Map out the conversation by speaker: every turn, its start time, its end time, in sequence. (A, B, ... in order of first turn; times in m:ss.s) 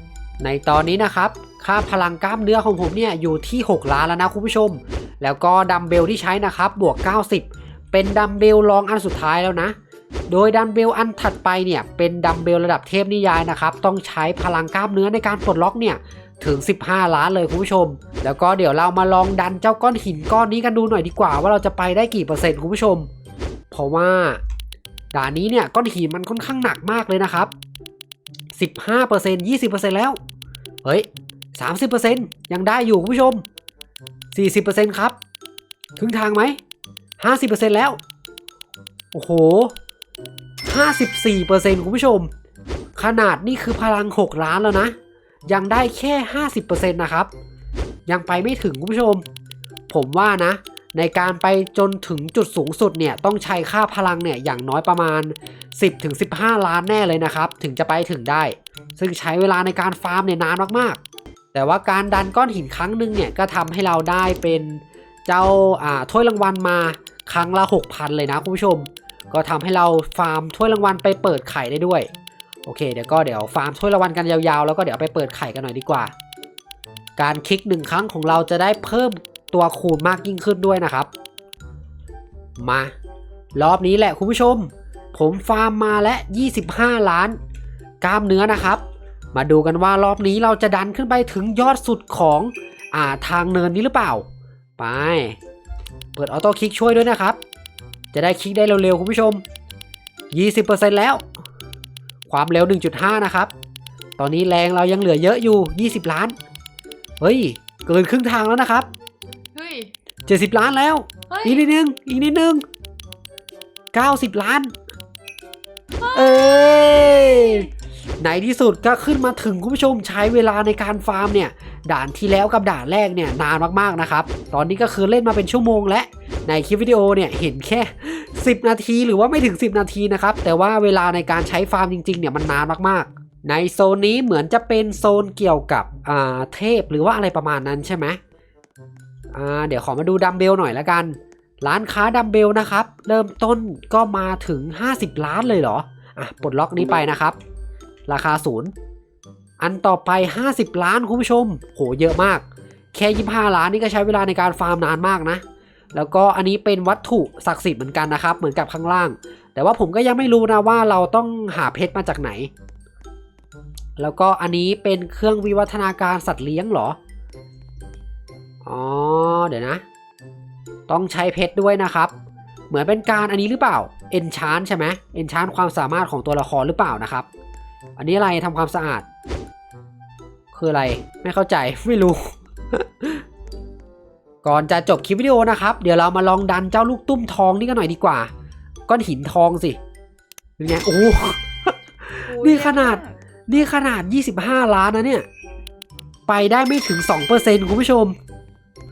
0:00.4-0:09.8 A
0:10.3-0:23.1 A
0:23.7-0:24.4 A
0:25.1-0:27.5 A
0:28.6-0:30.2 A
0:30.8-0:33.4 A
0:34.3-0:35.2 A
0:36.0-0:36.6 A
0:37.2-0:38.0 A
0:39.1-0:39.7 A
0:40.6-0:42.3 A
0:43.0-0:44.9 A
0:45.5-0:47.3 A
0:48.1-0:49.2 A
0:49.9-1:01.0 A
1:01.5-1:12.1 A
1:12.6-1:16.1 A
1:17.2-1:21.1 A
1:22.6-1:22.9 A
1:23.6-1:27.4 A
1:28.0-1:28.8 A
1:29.3-1:34.2 A
1:34.8-1:35.4 A
1:36.2-1:37.4 A
1:38.1-1:39.4 A
1:40.3-1:41.2 A
1:42.3-1:43.5 A
1:44.2-1:46.4 A
1:47.2-1:48.9 A
1:49.5-1:49.9 B
1:50.3-1:52.6 A
1:51.3-1:51.7 B
1:53.9-1:54.7 A
1:56.0-1:57.7 B
1:56.1-1:57.7 A
1:58.2-2:18.2 A
2:19.3-2:27.4 A
2:28.1-2:28.7 A
2:29.6-2:35.4 A
2:35.9-2:42.5 A
2:44.0-2:47.0 A
2:48.6-2:49.8 A
2:50.9-2:52.1 A
2:52.7-2:57.3 A
2:58.0-2:59.0 A
3:00.5-3:03.2 A
3:04.4-3:08.3 A
3:08.9-3:09.8 A
3:10.6-3:15.3 A
3:12.2-3:13.1 B
3:16.3-3:18.2 A